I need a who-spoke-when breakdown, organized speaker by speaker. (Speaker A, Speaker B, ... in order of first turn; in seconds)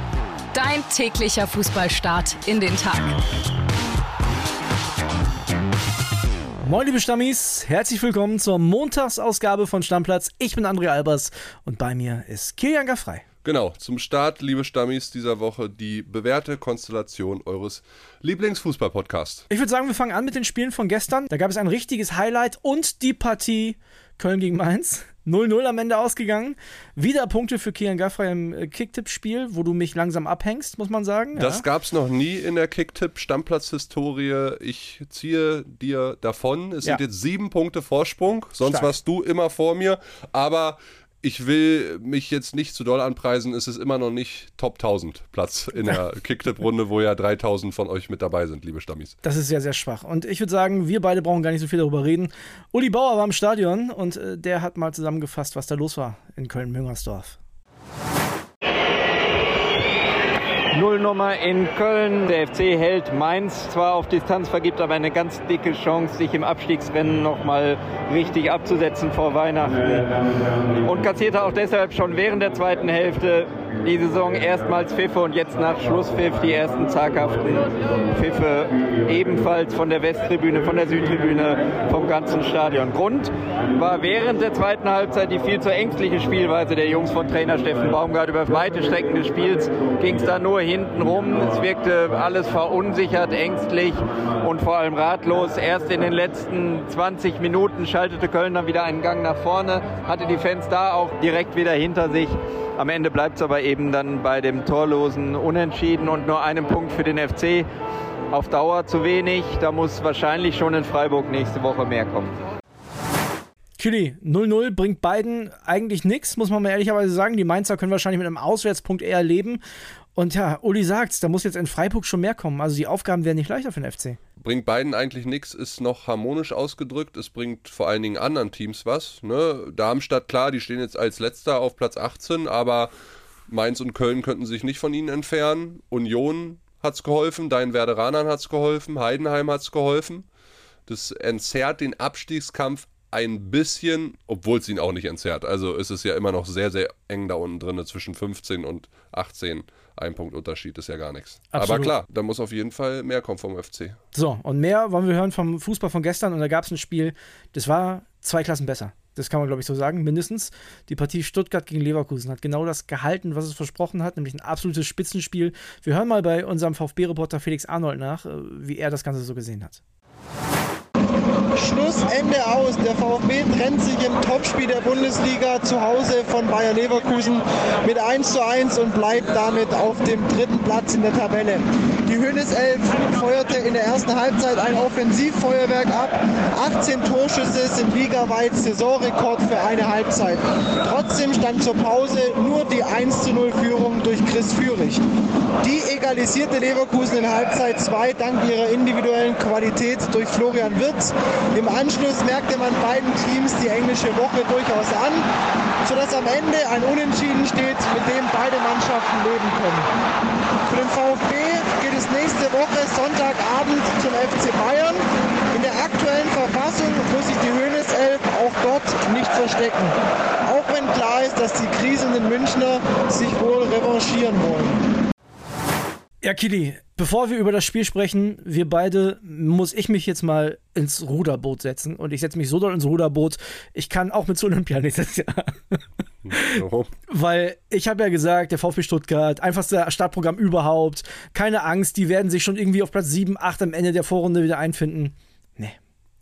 Speaker A: 0.5-3.1
Speaker B: 6.6-13.2, 19.5-31.6, 38.6-38.9, 49.2-57.4, 113.8-119.6, 120.1-124.2, 151.5-151.9, 154.1-169.8, 226.2-235.8, 236.3-245.8
Speaker C: 13.4-19.4, 31.3-49.1, 124.4-132.9, 133.5-140.2, 140.9-154.0, 236.2-236.9
Speaker D: 60.7-70.1, 70.8-107.7, 108.3-112.4
Speaker E: 171.6-195.0, 195.6-205.2, 205.8-209.9, 210.7-224.8